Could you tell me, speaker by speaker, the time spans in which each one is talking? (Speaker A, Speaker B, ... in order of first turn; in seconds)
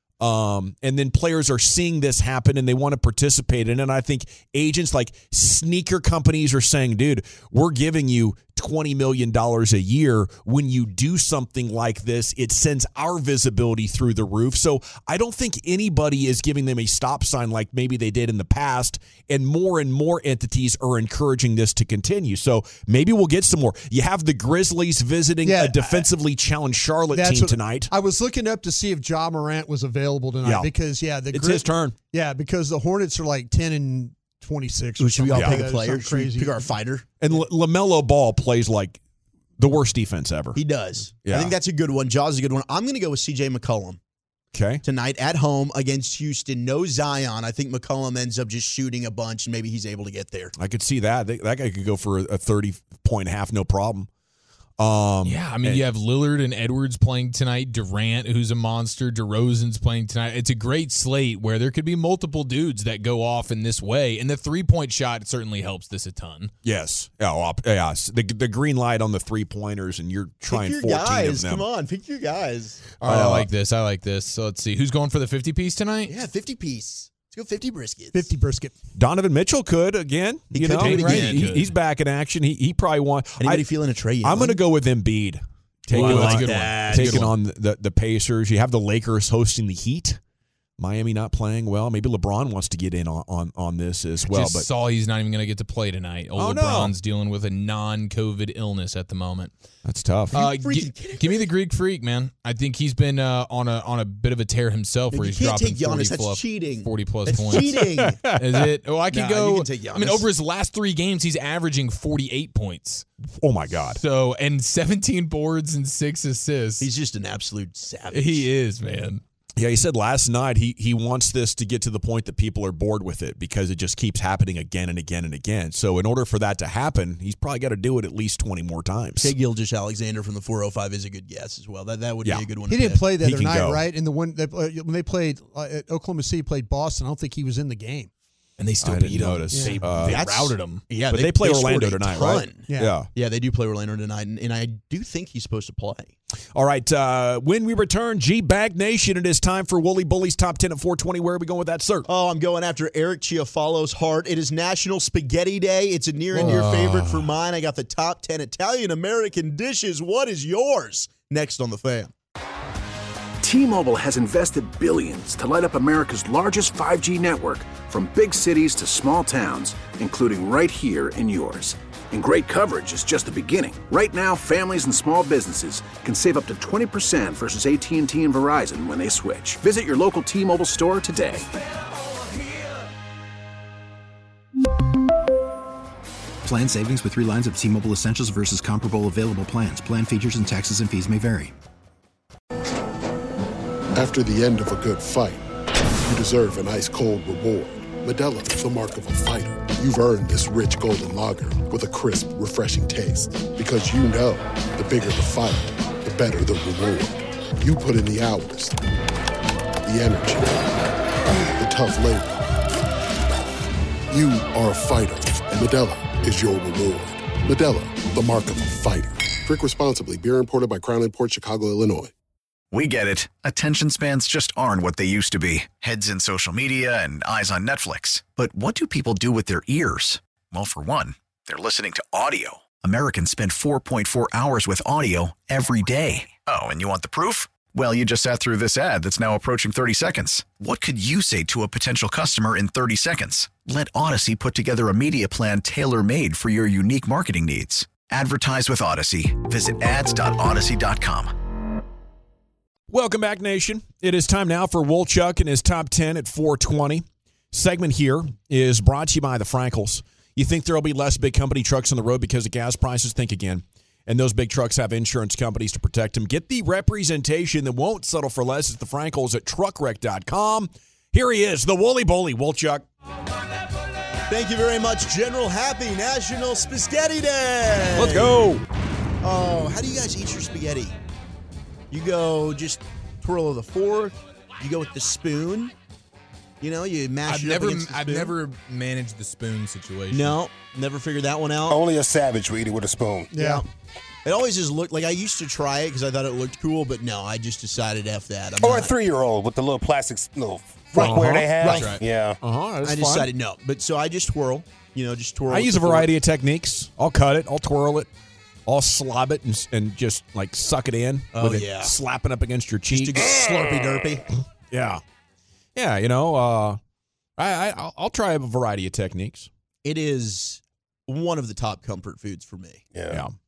Speaker A: 0.2-27.9, 30.4-30.7, 31.3-32.0, 35.3-35.6, 37.2-39.0, 39.6-40.6, 41.2-41.6, 44.5-44.8, 50.6-54.1, 54.8-55.8, 66.6-71.7, 73.0-73.5, 79.0-83.7, 84.2-90.2, 90.8-94.7, 96.4-97.0, 99.8-100.5, 107.5-108.7, 113.3-114.0, 119.6-129.3, 132.2-132.5, 133.0-133.8, 138.8-140.2, 141.1-143.1, 146.5-152.1, 252.9-272.9, 277.9-278.6, 300.9-301.8, 302.4-303.3, 305.5-308.1, 308.7-313.3, 314.7-315.0, 315.8-316.8, 317.4-319.5
Speaker B: 25.4-26.1, 27.1-36.7, 78.1-78.7, 132.7-138.1, 142.7-143.0, 293.3-293.6
Speaker C: 35.0-37.1, 40.5-44.0, 44.8-50.5, 70.5-72.8, 76.1-78.2, 80.5-81.5, 83.4-84.6, 85.9-87.3, 100.3-101.5, 105.1-108.3, 109.1-110.3, 116.8-118.5, 129.2-133.0, 140.0-146.1, 152.1-162.1, 274.3-278.4, 279.2-281.0, 281.9-285.7, 286.6-288.3, 290.1-291.8, 293.4-293.6, 294.2-298.9, 300.9-302.0, 302.8-306.1, 311.3-311.9, 312.9-314.3, 319.8-322.9
Speaker D: 55.2-66.5, 73.0-76.1, 80.8-81.7, 85.9-87.3, 94.3-99.5, 100.3-113.1, 114.0-116.9, 118.1-119.2, 138.6-140.8, 156.3-157.3, 287.3-290.4, 301.6-302.0
Speaker E: 163.4-181.5
Speaker F: 186.4-191.5
Speaker G: 193.9-195.4, 196.0-208.8, 209.8-210.7, 211.6-212.5, 214.1-222.1
Speaker H: 222.7-251.3
Speaker I: 291.7-293.3, 298.6-302.4, 322.9-323.2